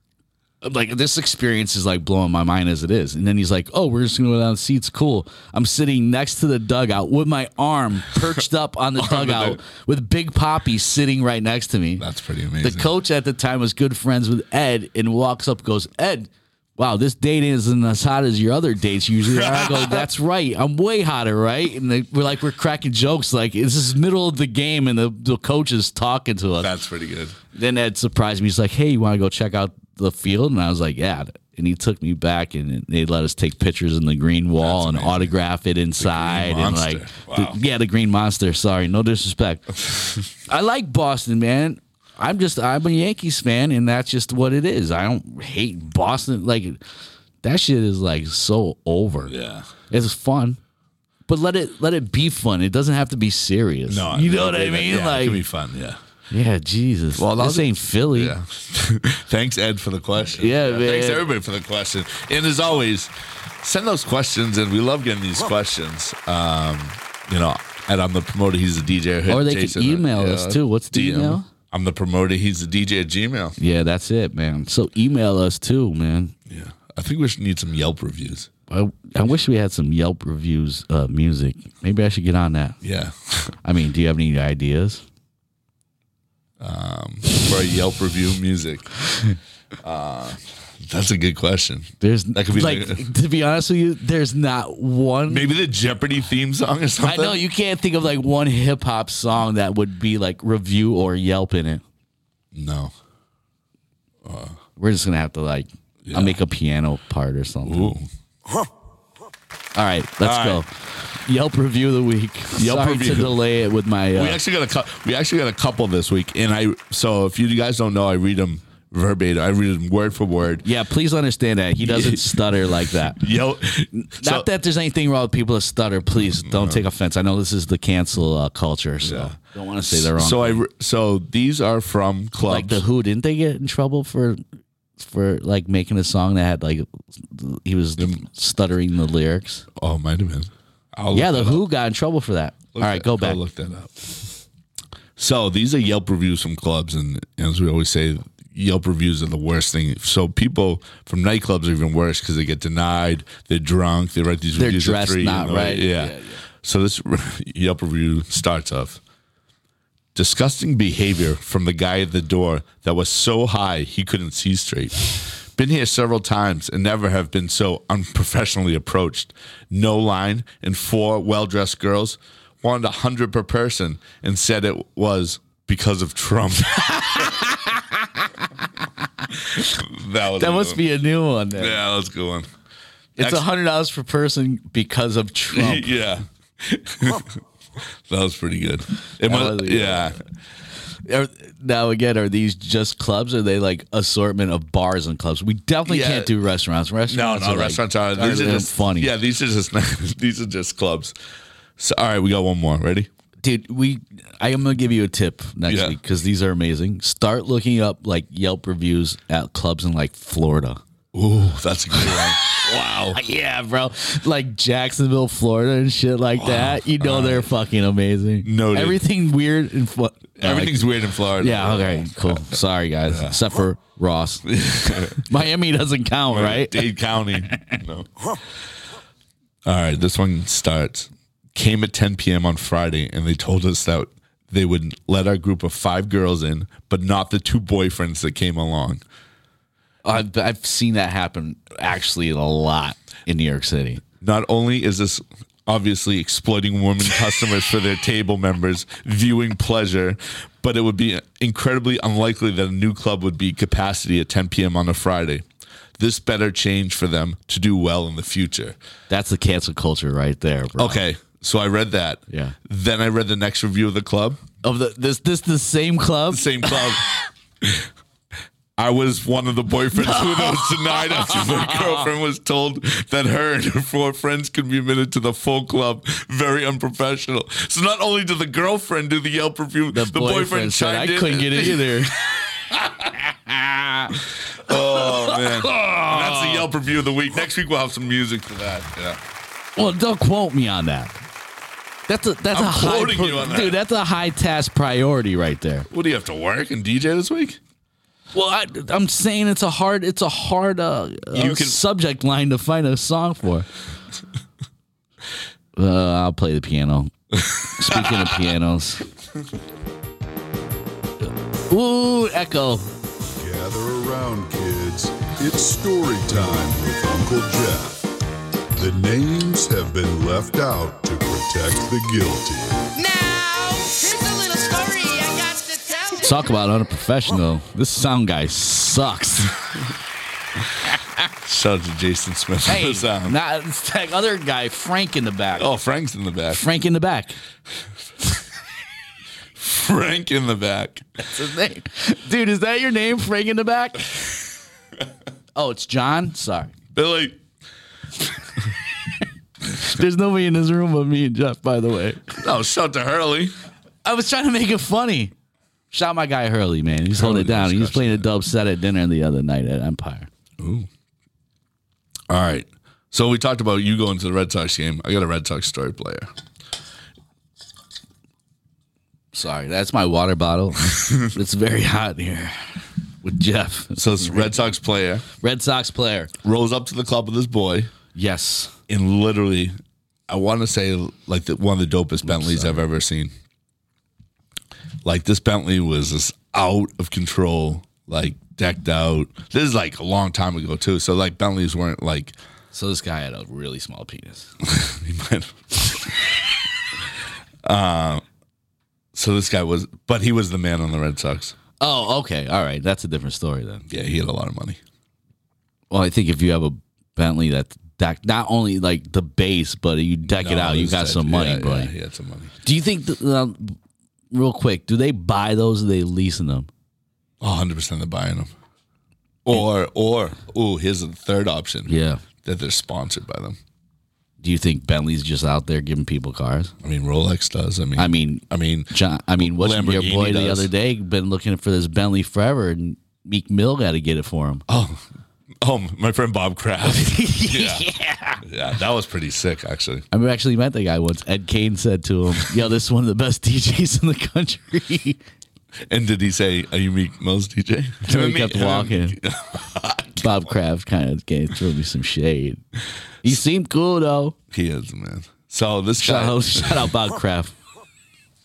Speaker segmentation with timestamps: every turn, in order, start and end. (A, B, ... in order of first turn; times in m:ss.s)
0:00.6-0:12.0 A
0:09.0-0:09.6 B
0:12.0-0:12.9 B
0:12.6-0:26.7 A
0:19.3-0:20.1 B
0:26.6-0:27.4 B
0:27.5-0:46.8 A
0:34.6-0:35.3 B
0:36.0-0:37.6 B
0:47.4-0:49.4 A
0:49.3-0:49.7 B
0:49.9-0:50.6 A
0:51.3-0:55.4 A
0:53.9-0:56.0 B
0:56.3-0:58.4 A
0:57.2-1:13.6 B
1:00.4-1:01.2 A
1:09.3-1:11.5 A
1:13.6-1:16.3 A
1:16.5-1:18.5 B
1:18.7-1:22.8 A
1:22.8-1:23.6 B
1:23.6-1:25.0 A
1:26.6-1:28.9 B
1:29.8-1:33.1 B
1:32.0-1:35.5 A
1:35.3-1:37.4 B
1:37.0-1:41.8 A
1:42.5-1:42.9 B
1:44.2-1:44.6 B
1:44.8-1:48.0 A
1:46.0-1:46.4 B
1:47.6-1:48.1 B
1:49.8-1:54.4 A
1:50.2-1:50.6 B
1:52.6-1:53.4 B
1:54.1-2:00.6 B
2:00.6-2:03.2 A
2:01.8-2:04.5 B
2:03.9-2:10.6 A
2:06.4-2:06.8 B
2:09.0-2:09.4 B
2:09.9-2:12.8 B
2:12.4-2:14.4 A
2:15.0-2:19.7 A
2:19.8-2:21.6 B
2:21.1-2:23.4 A
2:22.8-2:23.9 B
2:25.2-2:39.0 B
2:34.6-2:36.4 A
2:40.2-2:57.4 B
2:56.9-2:58.8 A
2:59.5-3:00.8 B
3:00.4-3:01.8 A
3:01.6-3:02.5 B
3:03.2-3:05.9 A
3:03.2-3:03.5 B
3:05.5-3:10.2 B
3:09.2-3:10.2 A
3:11.0-3:19.1 A
3:15.9-3:16.3 B
3:17.1-3:21.2 B
3:21.8-3:23.1 B
3:23.4-3:30.8 A
3:25.7-3:26.0 B
3:31.1-3:33.2 B
3:32.0-3:32.6 A
3:33.1-3:47.8 A
3:36.4-3:37.5 B
3:38.4-3:39.0 B
3:40.4-3:43.4 B
3:44.5-3:45.4 B
3:46.3-3:48.3 B
3:49.6-3:59.0 B
4:00.0-4:04.0 A
4:04.2-4:15.4 B
4:16.0-4:18.8 B
4:19.1-4:21.0 A
4:20.8-4:24.4 B
4:22.3-4:22.6 A
4:24.6-4:26.9 A
4:26.3-4:27.0 B
4:27.6-4:27.9 B
4:28.8-4:42.0 B
4:30.0-4:31.9 A
4:39.9-4:42.3 A
4:43.0-4:46.7 A
4:44.5-4:49.2 B
4:49.8-4:51.2 A
4:52.1-4:55.9 A
4:52.5-4:53.8 B
4:55.9-4:57.6 B
4:58.3-5:03.7 A
5:01.3-5:01.8 B
5:05.8-5:09.1 A
5:07.8-5:08.2 B
5:11.7-5:12.9 A
5:13.4-5:18.0 C
5:18.8-5:22.9 C
5:23.0-5:26.2 D
5:26.2-5:29.6 A
5:31.4-5:33.4 B
5:32.7-5:35.7 A
5:35.6-5:36.6 B
5:36.5-5:37.4 A
5:39.6-5:41.2 B
5:41.2-5:44.2 A
5:45.6-5:46.7 A
5:46.9-5:47.4 B
5:49.7-5:52.4 A
5:52.4-5:53.5 B
5:54.0-5:55.3 A
5:55.9-6:00.3 A
5:57.1-5:58.3 B
6:00.6-6:00.9 B
6:02.3-6:06.3 B
6:09.3-6:14.7 A
6:14.0-6:15.2 B
6:15.3-6:16.3 A
6:16.4-6:17.9 B
6:18.1-6:18.8 A
6:18.9-6:19.8 B
6:20.3-6:23.3 B
6:22.2-6:22.8 A
6:25.0-6:32.4 B
6:32.7-6:34.6 A
6:34.6-6:36.3 B
6:37.6-6:38.2 B
6:39.1-6:41.6 B
6:41.8-6:43.9 A
6:43.9-6:44.8 B
6:45.9-6:51.9 A
6:50.3-6:52.6 B
6:52.6-6:53.8 A
6:54.3-6:56.7 A
6:57.4-6:58.5 B
6:59.4-7:03.6 B
7:01.9-7:02.2 A
7:04.4-7:06.7 A
7:06.8-7:10.7 B
7:08.0-7:14.6 A
7:14.7-7:15.1 B
7:15.6-7:17.8 B
7:16.8-7:18.4 A
7:18.4-7:20.1 B
7:20.1-7:25.2 A
7:25.9-7:30.5 B
7:28.0-7:29.2 A
7:30.2-7:32.6 A
7:33.2-7:34.4 A
7:34.5-7:36.9 B
7:36.0-7:37.5 A